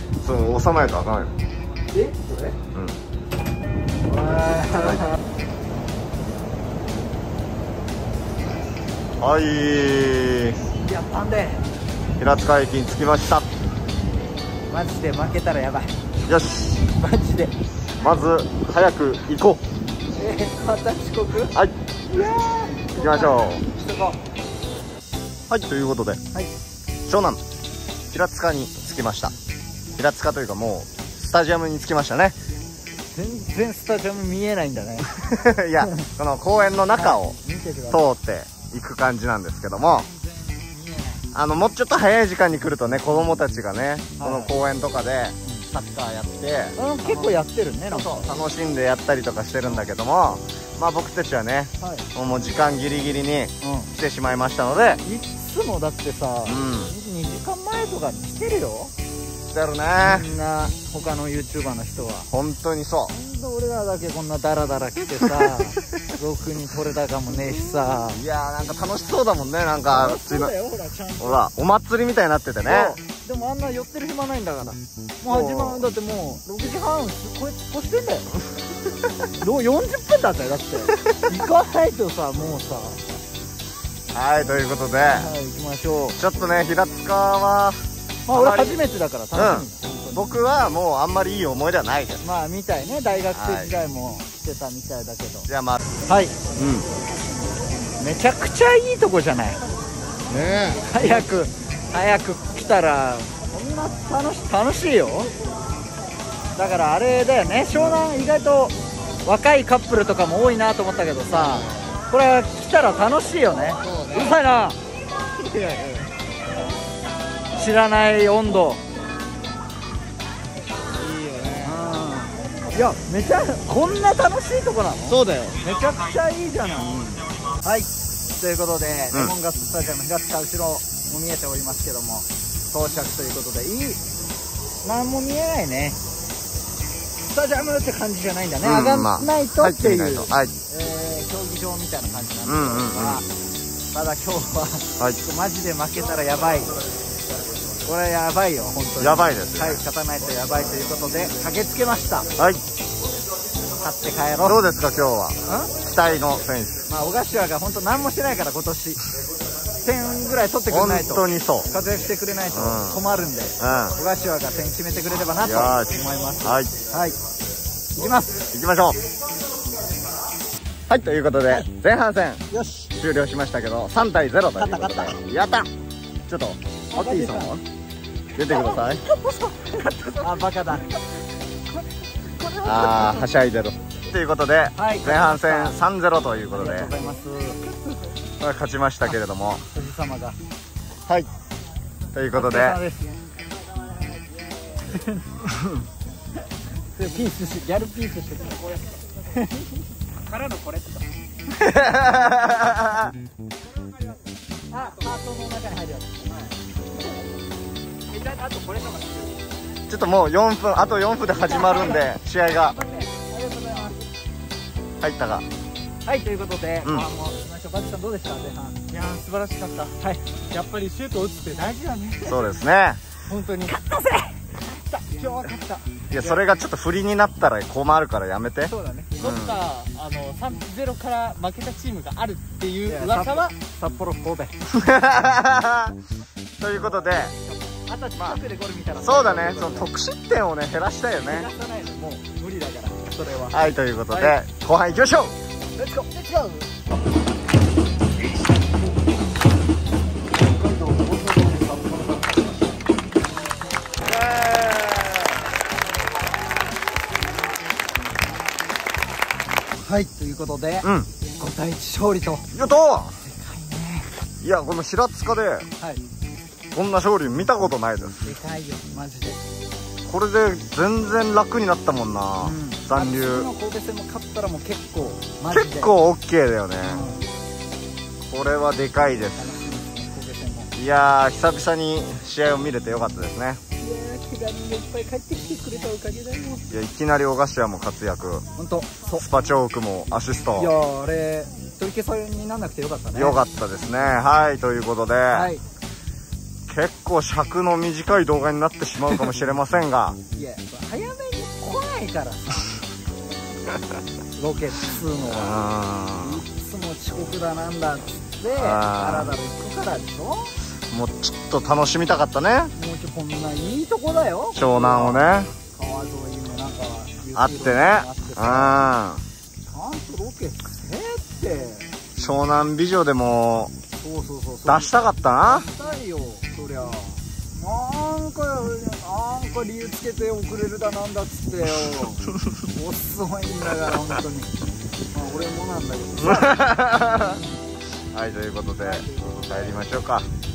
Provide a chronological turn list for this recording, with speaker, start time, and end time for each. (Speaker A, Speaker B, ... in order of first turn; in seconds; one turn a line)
Speaker A: 0.2-1.3
Speaker B: 1.9-2.5
Speaker B: 4.0-5.1
Speaker A: 4.8-5.0
Speaker A: 9.2-10.6
Speaker B: 10.8-11.6
Speaker A: 12.2-13.5
Speaker B: 14.7-15.9
Speaker A: 16.3-16.7
Speaker B: 16.9-17.5
Speaker A: 18.0-19.6
Speaker B: 20.2-21.5
Speaker B: 22.1-24.2
Speaker A: 22.9-23.6
Speaker A: 25.5-26.2
Speaker A: 27.1-27.4
Speaker A: 28.1-29.3
Speaker A: 30.0-32.4
Speaker B: 33.1-35.1
Speaker A: 35.2-37.4
Speaker B: 36.9-38.0
Speaker A: 37.9-40.1
Speaker B: 40.7-41.2
Speaker A: 41.3-47.3
Speaker B: 44.2-44.5
Speaker B: 46.8-48.3
Speaker A: 47.9-55.0
Speaker B: 51.8-52.1
Speaker B: 53.6-53.9
Speaker B: 55.0-58.9
Speaker A: 56.5-56.9
Speaker A: 59.5-60.3
Speaker B: 60.0-62.3
Speaker A: 62.3-63.1
Speaker B: 63.1-68.2
Speaker A: 68.1-70.5
Speaker B: 69.9-71.4
Speaker A: 71.2-73.0
Speaker B: 72.7-78.3
Speaker A: 75.2-75.8
Speaker B: 79.4-83.0
Speaker A: 84.1-85.3
Speaker B: 85.0-86.2
Speaker A: 86.2-88.8
Speaker B: 88.2-90.2
Speaker A: 89.3-92.2
Speaker B: 92.2-95.5
Speaker A: 93.3-93.7
Speaker A: 95.5-95.8
Speaker B: 96.0-96.3
Speaker A: 96.6-96.9
Speaker B: 98.0-99.6
Speaker A: 100.3-101.3
Speaker B: 100.8-105.3
Speaker B: 106.5-114.8
Speaker A: 107.8-108.0
Speaker A: 111.3-111.6
Speaker A: 113.8-114.2
Speaker A: 115.5-116.0
Speaker B: 117.5-118.8
Speaker A: 120.9-121.7
Speaker B: 121.6-127.0
Speaker A: 125.1-125.6
Speaker A: 126.9-127.2
Speaker B: 127.6-134.0
Speaker B: 134.8-136.0
Speaker B: 137.3-143.2
Speaker A: 138.6-140.5
Speaker A: 142.4-143.2
Speaker B: 143.9-146.8
Speaker B: 147.8-152.3
Speaker A: 149.0-149.8
Speaker B: 153.8-154.6
Speaker A: 154.4-156.8
Speaker B: 155.4-155.7
Speaker B: 156.9-159.0
Speaker B: 159.8-167.2
Speaker A: 160.7-161.7
Speaker A: 162.5-163.0
Speaker A: 163.6-164.0
Speaker A: 165.4-166.7
Speaker B: 167.9-168.5
Speaker A: 168.5-169.0
Speaker A: 170.9-175.7
Speaker B: 172.5-172.9
Speaker B: 174.6-175.1
Speaker A: 176.3-177.6
Speaker B: 176.9-177.5
Speaker A: 178.3-179.0
Speaker B: 178.5-181.0
Speaker B: 182.4-183.3
Speaker A: 182.6-186.9
Speaker B: 184.8-185.8
Speaker B: 186.5-187.8
Speaker A: 188.4-189.6
Speaker B: 189.7-190.4
Speaker A: 192.1-192.8
Speaker B: 192.3-193.1
Speaker B: 194.8-195.4
Speaker B: 196.9-198.8
Speaker B: 199.3-199.7
Speaker C: 200.3-201.1
Speaker A: 201.6-203.1
Speaker B: 204.7-206.3
Speaker B: 208.2-209.1
Speaker C: 208.4-208.9
Speaker A: 209.9-212.8
Speaker B: 211.3-212.1
Speaker B: 212.7-214.0
Speaker A: 215.0-215.4
Speaker B: 216.0-218.8
Speaker C: 218.9-219.9
Speaker B: 220.0-220.2
Speaker C: 220.5-222.4
Speaker A: 222.2-223.0
Speaker C: 223.3-223.7
Speaker B: 223.6-225.8
Speaker A: 226.1-229.6
Speaker B: 228.6-229.1
Speaker C: 229.2-233.5
Speaker B: 232.8-234.6
Speaker A: 234.7-235.9
Speaker A: 236.6-237.3
Speaker B: 236.7-239.9
Speaker A: 239.0-241.5
Speaker B: 241.2-243.6
Speaker A: 243.5-245.3
Speaker B: 244.1-244.3
Speaker B: 245.8-246.7
Speaker C: 250.8-252.2
Speaker B: 259.8-262.5
Speaker A: 260.8-261.1
Speaker A: 262.5-263.1
Speaker B: 263.2-264.1
Speaker A: 264.4-265.7
Speaker B: 265.8-266.0
Speaker A: 266.7-268.3
Speaker B: 268.2-269.4
Speaker A: 270.1-273.5
Speaker B: 272.4-275.9
Speaker A: 275.5-277.0
Speaker B: 276.8-277.2
Speaker A: 278.3-279.5
Speaker B: 279.3-280.7
Speaker A: 280.7-283.6
Speaker B: 283.8-286.6
Speaker A: 286.7-288.4
Speaker B: 288.6-289.2
Speaker A: 289.1-290.7
Speaker B: 290.6-293.4
Speaker A: 293.1-295.5
Speaker B: 295.3-295.6
Speaker A: 296.7-300.2
Speaker B: 300.3-302.7
Speaker B: 304.3-305.6
Speaker A: 305.2-306.4
Speaker B: 306.2-310.5
Speaker A: 308.6-309.3
Speaker A: 310.9-312.7
Speaker B: 312.7-318.8
Speaker A: 314.5-315.5
Speaker A: 317.4-319.2
Speaker B: 319.7-321.9
Speaker A: 322.1-323.7
Speaker B: 323.9-334.5
Speaker A: 324.6-325.7
Speaker B: 335.1-337.4
Speaker A: 336.2-337.4
Speaker A: 338.1-340.3
Speaker B: 338.8-339.9